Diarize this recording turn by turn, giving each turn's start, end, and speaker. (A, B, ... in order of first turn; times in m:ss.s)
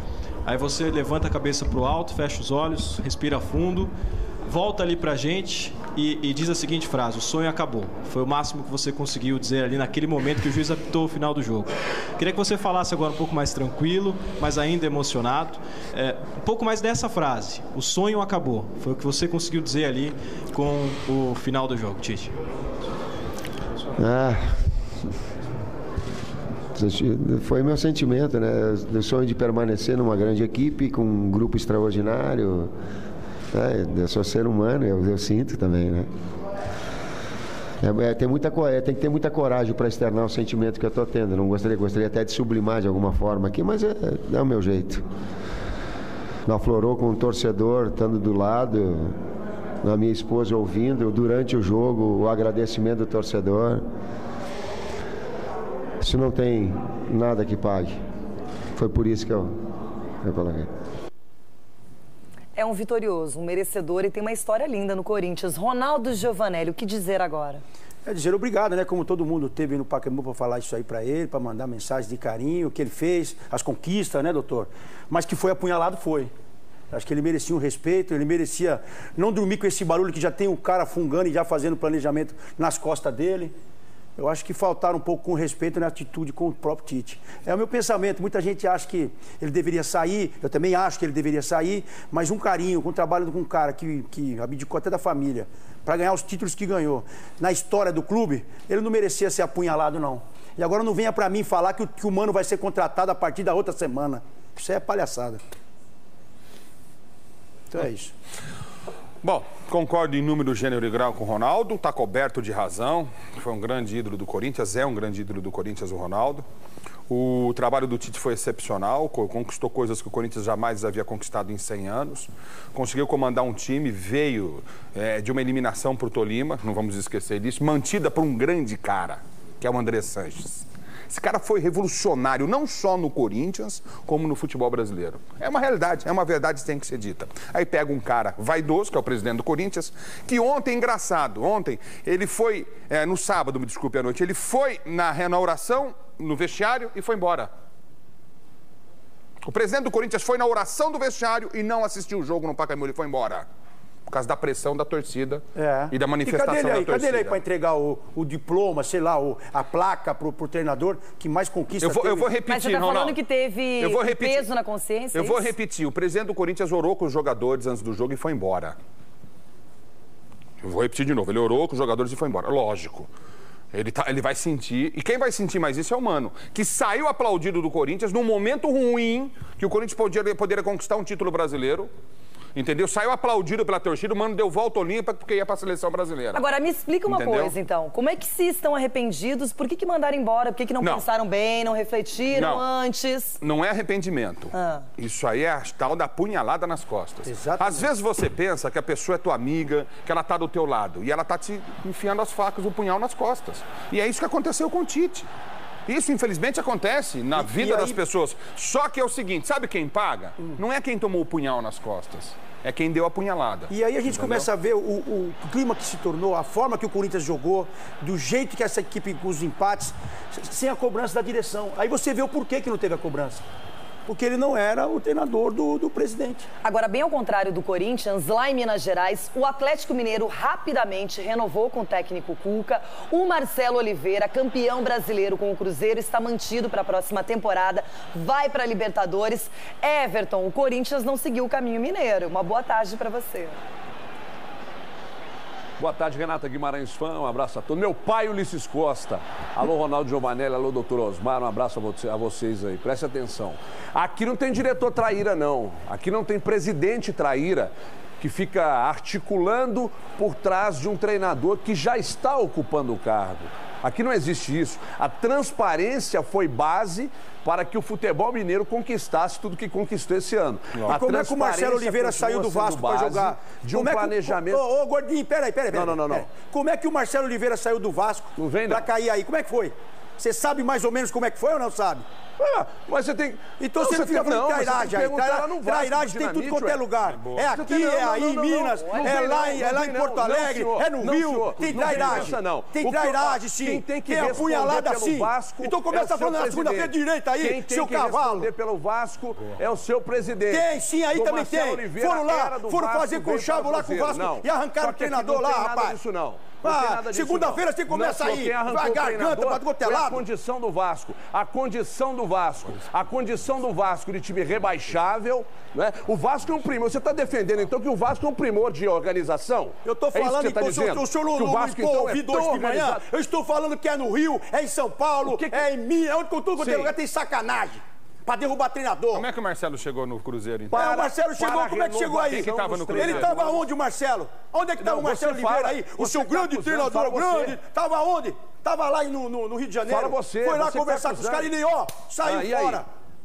0:00.4-0:03.9 A
0:04.4-0:22.3 A
0:24.0-0:24.7 B
0:26.7-0:32.7 B
0:33.5-0:36.1 B
0:37.8-0:45.0 B
0:46.4-0:49.2 B
0:49.8-0:53.8 B
0:56.0-0:58.0 B
0:58.7-0:59.5 B
1:00.2-1:00.7 B
1:02.5-1:07.6 C
1:08.0-1:16.3 D
1:16.9-1:23.5 D
1:24.2-1:45.4 D
1:47.7-1:48.1 D
1:49.2-1:56.4 E
1:57.1-2:27.5 E
2:29.4-2:33.4 E
2:34.1-2:37.4 E
2:35.5-2:42.3 D
2:41.8-2:43.2 E
2:42.4-2:45.5 C
2:43.8-2:44.5 E
2:45.1-2:48.8 E
2:50.6-2:53.1 E
2:53.7-3:01.9 E
3:02.5-3:06.4 E
3:06.3-3:13.4 C
3:07.1-3:07.5 E
3:12.3-3:12.6 E
3:13.4-3:25.3 E
3:14.5-3:14.9 C
3:17.2-3:17.9 D
3:25.9-3:34.5 E
3:27.3-3:28.0 D
3:33.7-3:43.4 D
3:44.0-3:46.5 D
3:46.6-4:03.6 C
4:05.8-4:34.6 F
4:30.8-4:42.0 D
4:35.7-4:36.2 F
4:38.4-4:38.9 F
4:42.4-5:23.0 F
4:43.6-4:58.5 D
4:47.0-4:47.6 E
4:48.8-4:49.2 C
5:00.5-5:06.0 D
5:06.6-5:10.2 D
5:19.8-5:29.3 D
5:25.2-5:25.7 F
5:26.6-5:27.0 F
5:29.1-5:30.9 E
5:30.7-5:33.6 F
5:30.7-5:42.9 D
5:32.3-5:33.3 E
5:34.8-5:37.6 F
5:39.8-5:41.5 F
5:42.2-5:42.8 F